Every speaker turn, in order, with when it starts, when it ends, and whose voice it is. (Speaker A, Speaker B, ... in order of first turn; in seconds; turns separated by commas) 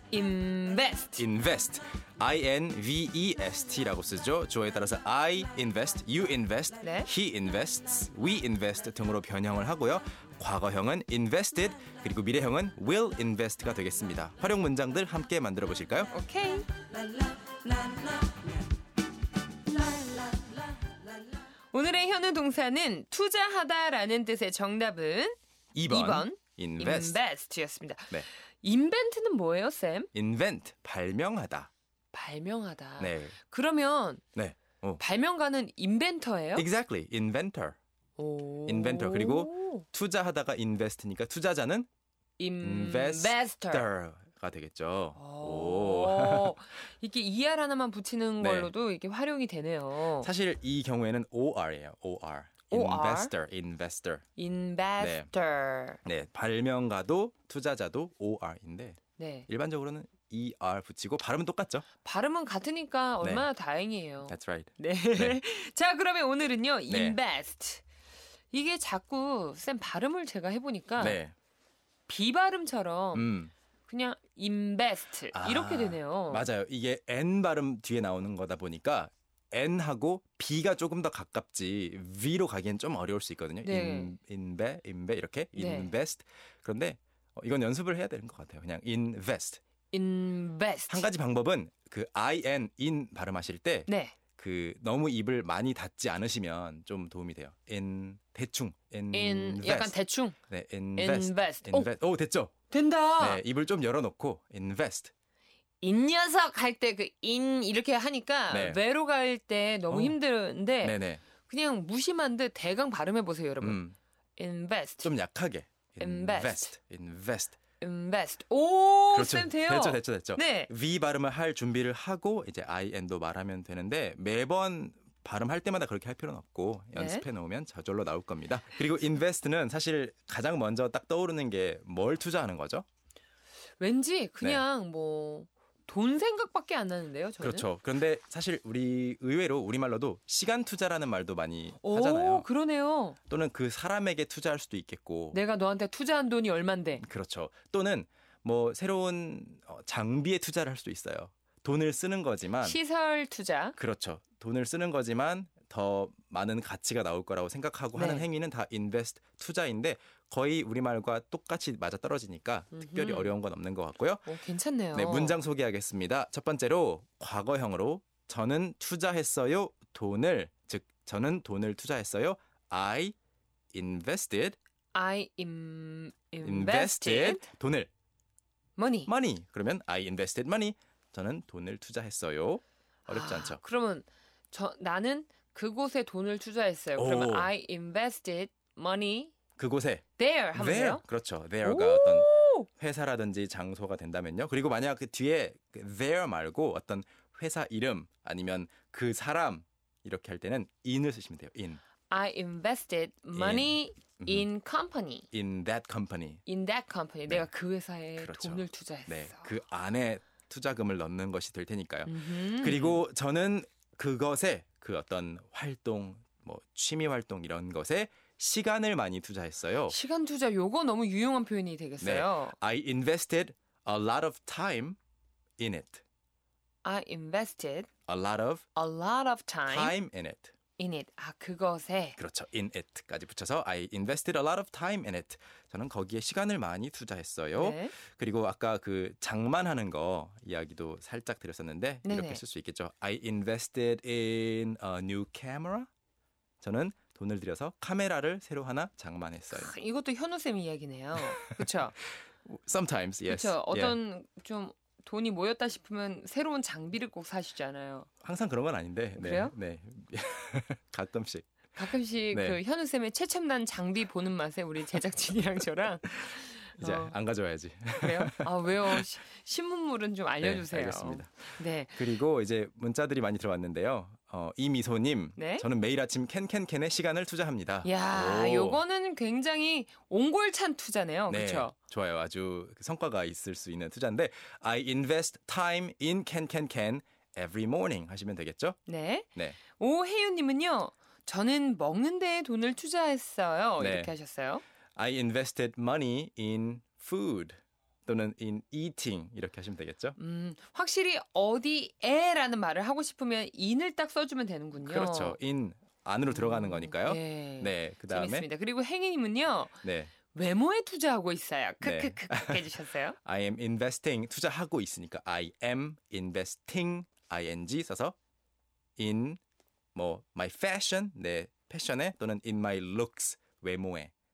Speaker A: 0.1-1.2, Speaker B: 1.2-16.1, Speaker A: 6.8-7.1, Speaker A: 16.1-16.7, Speaker A: 21.7-25.4, Speaker B: 25.7-27.2, Speaker A: 25.9-30.1, Speaker B: 30.1-31.7, Speaker A: 32.1-34.2, Speaker B: 33.0-33.4, Speaker B: 34.3-35.0, Speaker A: 35.0-36.6, Speaker B: 36.5-37.8, Speaker A: 38.2-39.8, Speaker B: 38.6-41.9, Speaker A: 42.4-43.9, Speaker B: 42.6-46.6, Speaker A: 45.2-50.3, Speaker B: 48.4-48.7, Speaker B: 50.2-54.2, Speaker A: 52.7-53.3, Speaker A: 54.4-56.0, Speaker B: 55.0-55.3, Speaker B: 56.0-61.9, Speaker A: 59.2-59.5, Speaker A: 62.0-67.8, Speaker B: 63.2-63.5, Speaker B: 64.3-65.4, Speaker B: 66.9-67.2, Speaker A: 68.5-71.2, Speaker B: 71.0-71.3, Speaker A: 72.1-73.3, Speaker B: 73.1-73.5, Speaker A: 73.9-76.5, Speaker B: 75.3-89.6, Speaker A: 83.6-84.1, Speaker A: 85.5-85.9, Speaker A: 89.9-91.1, Speaker B: 90.9-100.0, Speaker A: 93.9-94.2, Speaker A: 99.1-100.3, Speaker B: 100.5-102.5, Speaker A: 101.0-101.9, Speaker A: 102.7-103.4, Speaker B: 103.2-105.1, Speaker A: 105.8-113.8, Speaker B: 108.5-108.8, Speaker B: 109.9-110.2, Speaker B: 110.8-111.2, Speaker B: 113.6-114.0, Speaker A: 114.4-115.1, Speaker B: 115.0-117.6, Speaker A: 116.0-116.7, Speaker A: 117.8-120.7, Speaker B: 119.1-132.8, Speaker A: 126.9-127.2, Speaker A: 133.8-137.7, Speaker B: 137.4-142.4, Speaker A: 141.8-143.2, Speaker B: 143.3-145.4, Speaker A: 145.3-147.0, Speaker B: 147.0-152.8, Speaker A: 152.6-153.8, Speaker B: 153.8-164.3, Speaker A: 157.9-158.2, Speaker A: 162.7-163.3, Speaker A: 164.2-165.4, Speaker B: 164.9-173.2, Speaker B: 173.7-174.6, Speaker A: 174.9-177.4, Speaker B: 176.4-177.9, Speaker A: 178.8-179.1, Speaker B: 179.1-183.6, Speaker A: 183.1-189.3, Speaker B: 186.9-187.5, Speaker B: 189.6-201.8, Speaker A: 190.2-191.0, Speaker A: 191.6-192.7, Speaker A: 202.1-205.3, Speaker B: 203.3-204.5, Speaker B: 205.3-206.4, Speaker A: 206.4-209.5, Speaker B: 208.2-220.0, Speaker A: 212.1-213.0, Speaker A: 219.9-222.5, Speaker B: 222.0-225.0, Speaker B: 225.6-226.0, Speaker A: 226.8-227.9, Speaker B: 228.1-228.6, Speaker A: 228.7-230.0, Speaker B: 229.7-230.5, Speaker A: 230.8-232.2, Speaker B: 232.2-245.9, Speaker A: 237.6-237.9, Speaker A: 242.0-242.4, Speaker B: 246.6-249.7, Speaker A: 249.5-251.9, Speaker B: 252.4-254.0, Speaker A: 253.3-258.1, Speaker B: 258.2-261.5, Speaker A: 259.1-259.5, Speaker A: 261.8-267.1, Speaker B: 262.3-262.6, Speaker B: 266.8-269.0, Speaker A: 267.9-272.0, Speaker B: 270.4-271.3, Speaker B: 271.9-278.8, Speaker A: 275.4-275.6, Speaker A: 277.8-281.7, Speaker B: 281.3-288.8, Speaker A: 288.9-294.6, Speaker B: 293.8-294.1, Speaker B: 294.9-300.2, Speaker A: 300.2-305.4, Speaker B: 304.8-308.4, Speaker A: 306.3-309.7, Speaker B: 309.8-310.1, Speaker A: 310.3-313.2, Speaker B: 311.8-318.1, Speaker B: 319.0-319.4, Speaker B: 319.9-324.1